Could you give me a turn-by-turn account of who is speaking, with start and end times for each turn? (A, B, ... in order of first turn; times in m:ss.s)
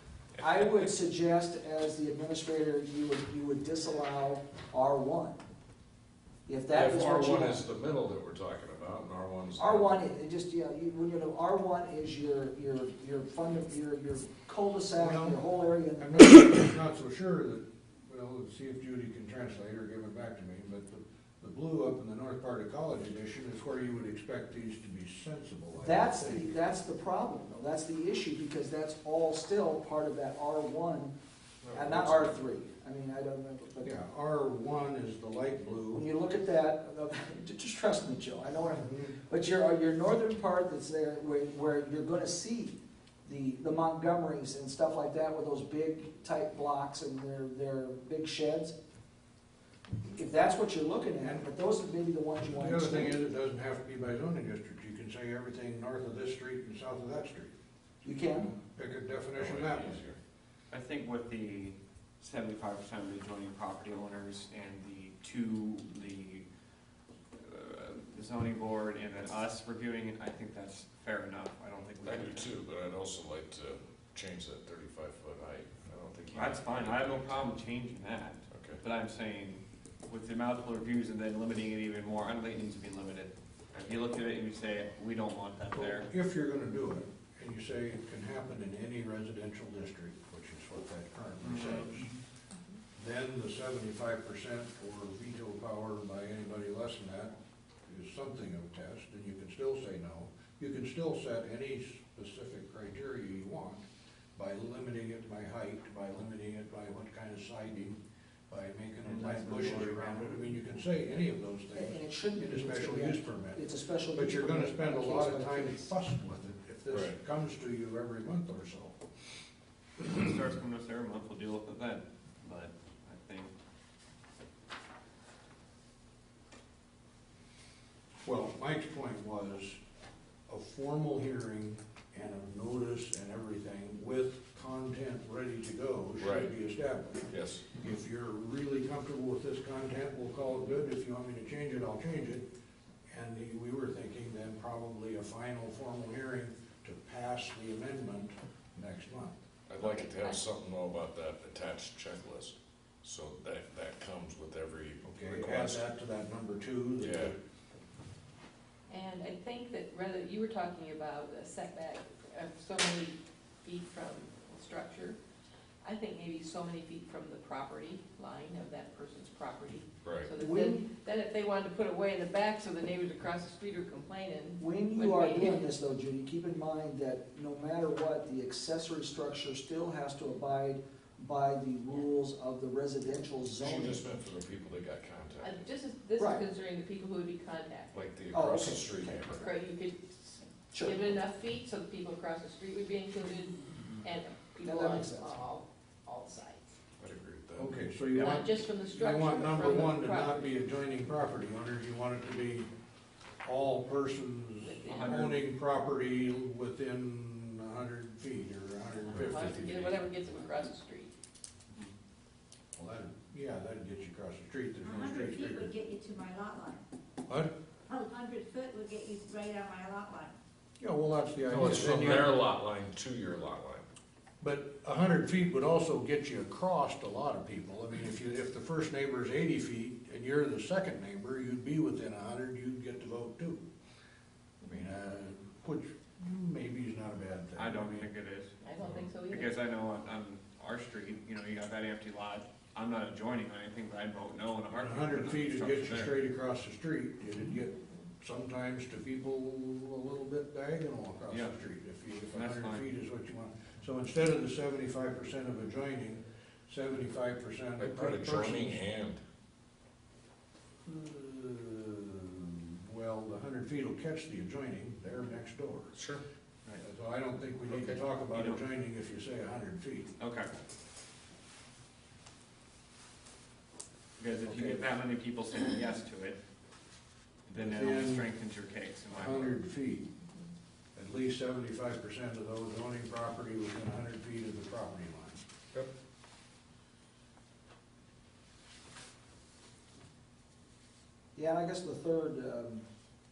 0:00.4-0:00.8 A
0:00.4-0:05.4 B
0:06.5-0:07.6 B
0:06.7-0:10.0 A
0:09.6-0:16.7 B
0:15.0-0:15.4 C
0:16.0-0:26.6 C
0:25.8-0:31.1 B
0:31.6-0:32.3 A
0:31.7-0:34.0 B
0:33.8-0:36.1 C
0:35.9-0:48.8 B
0:38.8-0:39.1 C
0:50.0-0:53.2 B
0:52.5-0:57.5 C
0:58.0-0:58.5 B
0:58.7-1:00.0 C
0:59.4-1:00.2 A
1:00.7-1:06.5 D
1:07.4-1:12.5 D
1:12.0-1:17.6 A
1:16.3-1:26.1 D
1:18.5-1:18.8 A
1:25.7-1:32.1 C
1:31.4-1:32.0 D
1:33.0-1:37.4 C
1:37.9-1:43.8 C
1:44.4-1:48.0 C
1:48.5-1:59.0 C
1:49.0-1:50.4 D
1:51.7-1:55.9 B
1:56.9-1:57.2 A
2:00.0-2:03.5 D
2:08.2-2:09.8 C
2:10.5-2:22.4 C
2:16.2-2:16.5 A
2:17.3-2:17.7 A
2:23.1-2:29.4 C
2:29.7-2:35.9 A
2:29.8-2:30.4 E
2:35.0-2:37.4 C
2:37.0-2:37.3 A
2:38.9-2:45.2 E
2:45.8-2:55.6 E
2:50.0-2:50.3 A
2:50.4-2:50.9 B
2:54.6-3:04.0 B
3:03.6-3:05.6 A
3:05.4-3:08.0 E
3:06.2-3:06.4 B
3:07.9-3:09.5 A
3:08.3-3:09.2 B
3:09.3-3:16.7 E
3:10.7-3:11.2 B
3:14.6-3:15.4 B
3:17.0-3:18.0 A
3:17.6-3:22.7 C
3:18.1-3:20.5 E
3:23.4-3:29.6 C
3:24.6-3:25.4 E
3:24.8-3:25.4 D
3:29.1-3:30.1 A
3:29.1-3:31.1 E
3:32.8-3:35.7 C
3:34.8-3:36.8 F
3:37.9-3:40.3 F
3:40.8-3:42.4 C
3:41.4-3:43.9 A
3:44.4-3:53.6 C
3:54.6-3:58.1 C
3:57.6-3:58.6 D
3:58.6-3:59.5 E
3:59.2-4:06.2 D
4:04.7-4:18.8 C
4:11.3-4:11.5 D
4:12.3-4:12.9 D
4:17.8-4:19.2 A
4:20.9-4:25.9 C
4:25.9-4:26.2 A
4:26.8-4:30.1 C
4:27.7-4:28.0 A
4:28.3-4:28.6 D
4:30.2-4:30.6 D
4:34.2-4:36.4 D
4:34.4-4:34.8 C
4:37.5-4:39.6 D
4:37.6-4:38.3 C
4:39.1-4:40.1 C
4:41.0-4:45.4 C
4:51.4-4:52.8 B